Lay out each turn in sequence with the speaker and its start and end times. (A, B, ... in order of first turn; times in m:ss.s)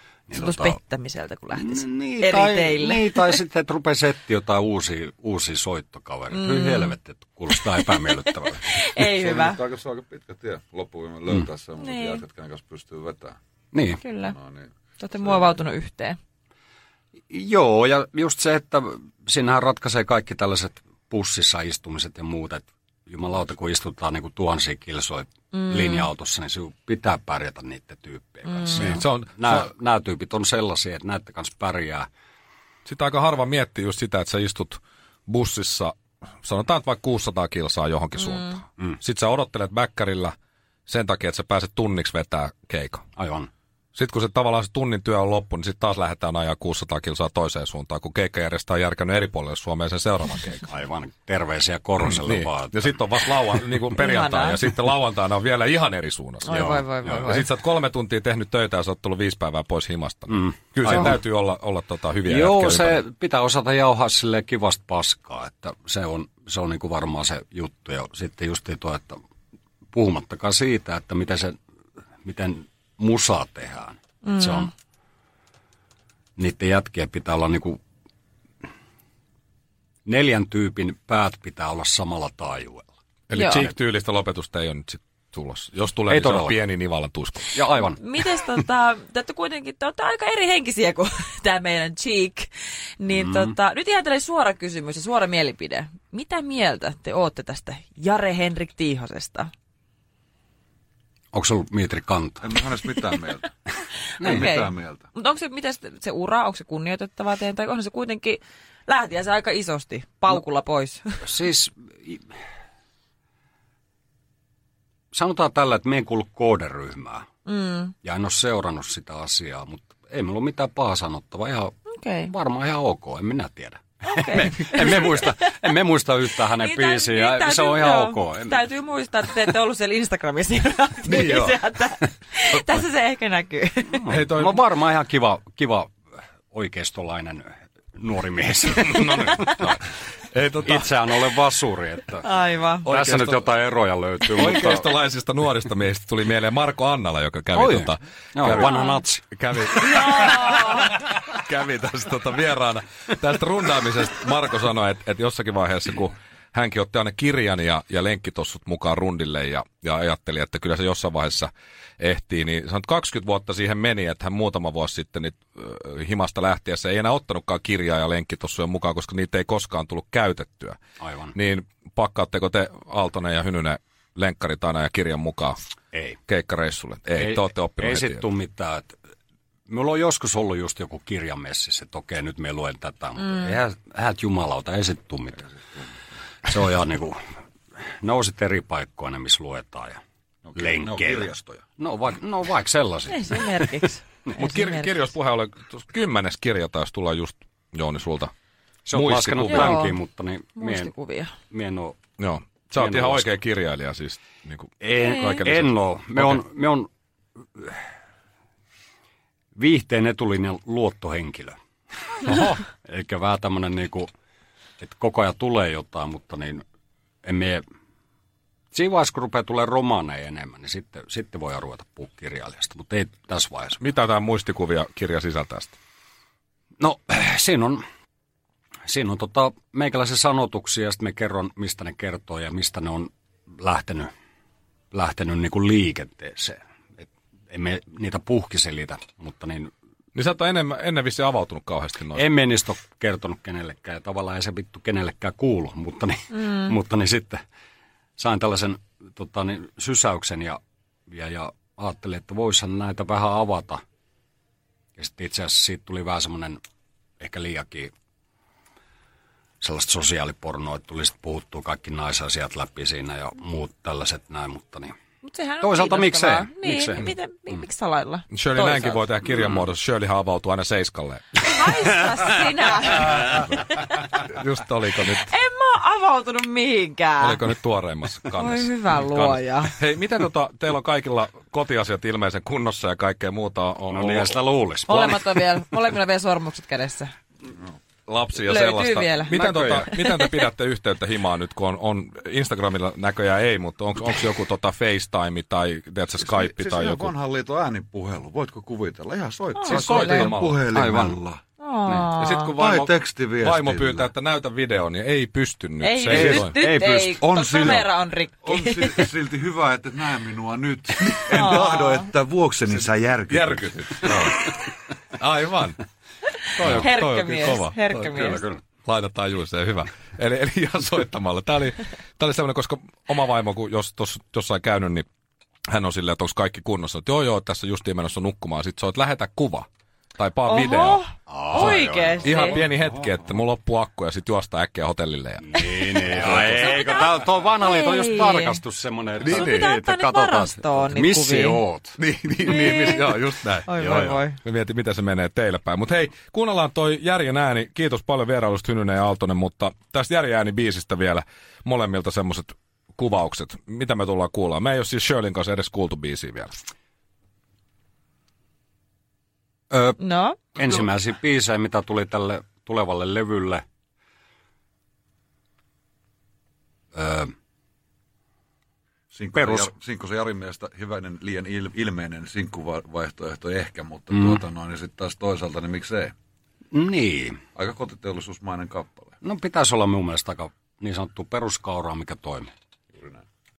0:00.3-0:00.8 A
0:00.3-0:03.3 B
0:01.6-0:08.8 A
0:06.3-0:07.0 B
0:08.7-0:09.6 B
0:09.0-0:13.4 C
0:11.8-0:12.2 B
0:13.7-0:14.0 A
0:14.0-0:14.4 B
0:14.2-0:15.6 C
0:15.0-0:16.2 B
0:17.3-0:32.1 A
0:25.5-0:26.1 B
0:28.5-0:29.0 B
0:28.9-0:29.7 D
0:32.9-0:40.3 D
0:38.2-0:38.6 B
0:40.9-0:43.1 D
0:43.2-0:43.5 A
0:44.0-0:50.7 D
0:50.7-0:53.0 A
0:52.1-1:03.0 D
0:54.0-0:54.6 B
0:56.4-0:57.5 B
0:56.5-0:57.2 A
1:00.3-1:01.2 A
1:02.2-1:09.2 A
1:09.9-1:11.6 A
1:12.2-1:14.7 A
1:14.2-1:14.7 B
1:16.4-1:17.8 A
1:20.1-1:22.9 A
1:23.3-1:27.6 D
1:23.3-1:23.7 B
1:26.1-1:26.6 A
1:27.5-1:28.0 A
1:28.0-1:39.5 B
1:33.1-1:33.5 A
1:41.3-1:42.5 A
1:42.4-1:43.5 C
1:44.2-1:45.1 C
1:44.2-1:51.1 B
1:44.2-1:44.5 A
1:51.2-1:52.3 A
1:55.1-1:57.3 A
1:57.5-1:57.9 B
1:58.0-2:01.7 A
2:01.9-2:02.3 B
2:02.3-2:08.6 A
2:04.1-2:05.4 B
2:06.5-2:14.0 B
2:11.0-2:11.6 D
2:13.9-2:15.9 A
2:14.1-2:14.6 D
2:16.5-2:19.7 A
2:18.8-2:19.8 D
2:20.3-2:21.1 D
2:20.6-2:22.3 A
2:22.2-2:22.9 B
2:22.8-2:23.5 D
2:22.9-2:24.9 A
2:24.3-2:50.8 D
2:27.6-2:29.2 A
2:28.5-2:29.0 B
2:29.9-2:30.9 B
2:51.0-2:51.4 A
2:51.3-2:55.6 D
2:55.9-2:56.2 A
2:56.3-2:58.3 D
2:57.2-2:59.0 A
2:59.7-3:05.5 A
3:06.4-3:07.2 A
3:08.0-3:10.0 A
3:10.4-3:11.7 C
3:10.6-3:13.5 A
3:13.1-3:15.1 B
3:14.4-3:18.3 D
3:18.9-3:20.9 A
3:18.9-3:19.8 D
3:19.4-3:20.0 B
3:20.6-3:21.3 B
3:21.5-3:22.0 A
3:22.2-3:26.4 D
3:22.8-3:23.3 A
3:24.8-3:26.9 A
3:25.0-3:25.4 B
3:29.6-3:31.6 A
3:32.2-3:34.1 A
3:34.8-3:36.6 A
3:37.2-3:37.6 A
3:38.7-3:43.8 A
3:43.8-3:45.8 D
3:46.8-3:47.8 A
3:48.9-3:54.1 A
3:54.9-3:59.7 A
4:00.2-4:02.3 D
4:02.1-4:07.4 A
4:06.3-4:06.7 B
4:08.2-4:13.8 A
4:15.0-4:16.6 A
4:17.2-4:17.9 A
4:19.6-4:24.9 A
4:25.2-4:29.1 B
4:25.6-4:27.1 A
4:28.3-4:31.5 D
4:31.4-4:34.2 B
4:34.1-4:35.3 D
4:35.1-4:37.5 B
4:37.2-4:44.4 D
4:38.3-4:39.8 B
4:43.9-4:45.2 A
4:44.9-4:47.1 B
4:48.1-4:57.1 D
4:48.4-4:50.3 B
4:49.3-4:49.9 A
4:56.2-5:01.4 C
4:59.6-5:00.1 B
4:59.7-5:00.6 D
4:59.8-5:01.2 A
5:01.6-5:02.6 B
5:02.2-5:06.6 D
5:02.5-5:04.1 C
5:05.8-5:09.1 B
5:06.1-5:07.2 A
5:06.1-5:06.4 C
5:07.2-5:07.9 C
5:08.4-5:14.5 C
5:11.3-5:12.1 B
5:13.3-5:14.4 D
5:15.2-5:15.8 D
5:16.6-5:17.8 D
5:16.6-5:16.9 A
5:16.7-5:18.4 B
5:17.9-5:18.6 A
5:18.8-5:25.1 D
5:25.7-5:29.7 D
5:30.2-5:36.1 D
5:30.5-5:32.6 B
5:31.3-5:32.6 A
5:35.5-5:42.0 A
5:36.1-5:37.1 B
5:37.6-5:38.6 B
5:39.2-5:39.7 D
5:39.2-5:41.6 B
5:42.0-5:43.7 D
5:42.4-5:44.4 B
5:43.8-5:44.2 A
5:44.3-5:56.5 D
5:59.7-6:00.0 A
6:00.0-6:00.4 B
6:00.6-6:03.6 A
6:07.0-6:07.3 A
6:09.1-6:16.1 C
6:09.3-6:09.7 A
6:14.1-6:14.4 A
6:16.7-6:17.4 A
6:17.6-6:19.2 C
6:19.2-6:22.5 A
6:23.0-6:23.2 C